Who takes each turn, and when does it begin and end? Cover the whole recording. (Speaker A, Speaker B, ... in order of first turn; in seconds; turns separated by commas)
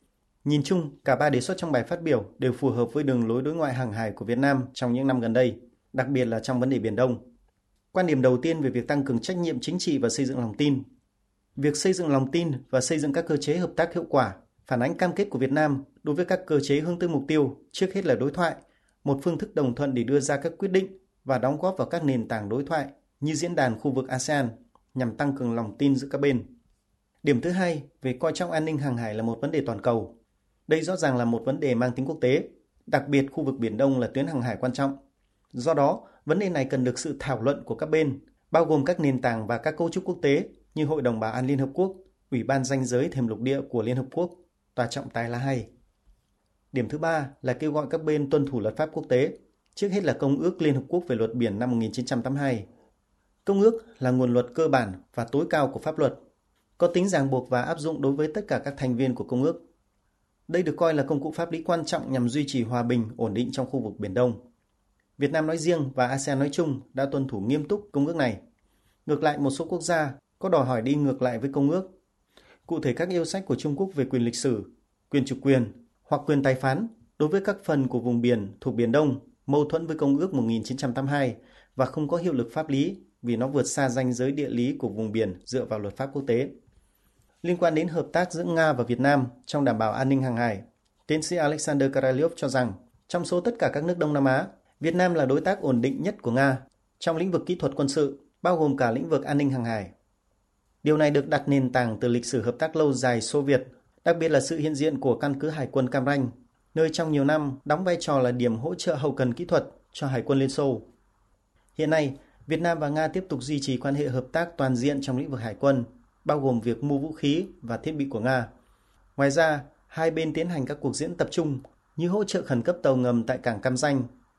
Speaker A: 0.5-7.2, Speaker A: 7.9-10.8, Speaker A: 11.6-26.5, Speaker A: 27.2-30.1, Speaker A: 30.7-35.0, Speaker A: 35.5-45.7, Speaker A: 46.7-52.6, Speaker A: 53.5-56.2, Speaker A: 56.8-59.6, Speaker A: 60.5-64.4, Speaker A: 65.2-68.4, Speaker A: 69.1-71.9, Speaker A: 72.7-86.5, Speaker A: 87.4-99.9, Speaker A: 100.8-110.8, Speaker A: 111.8-118.5, Speaker A: 119.2-124.1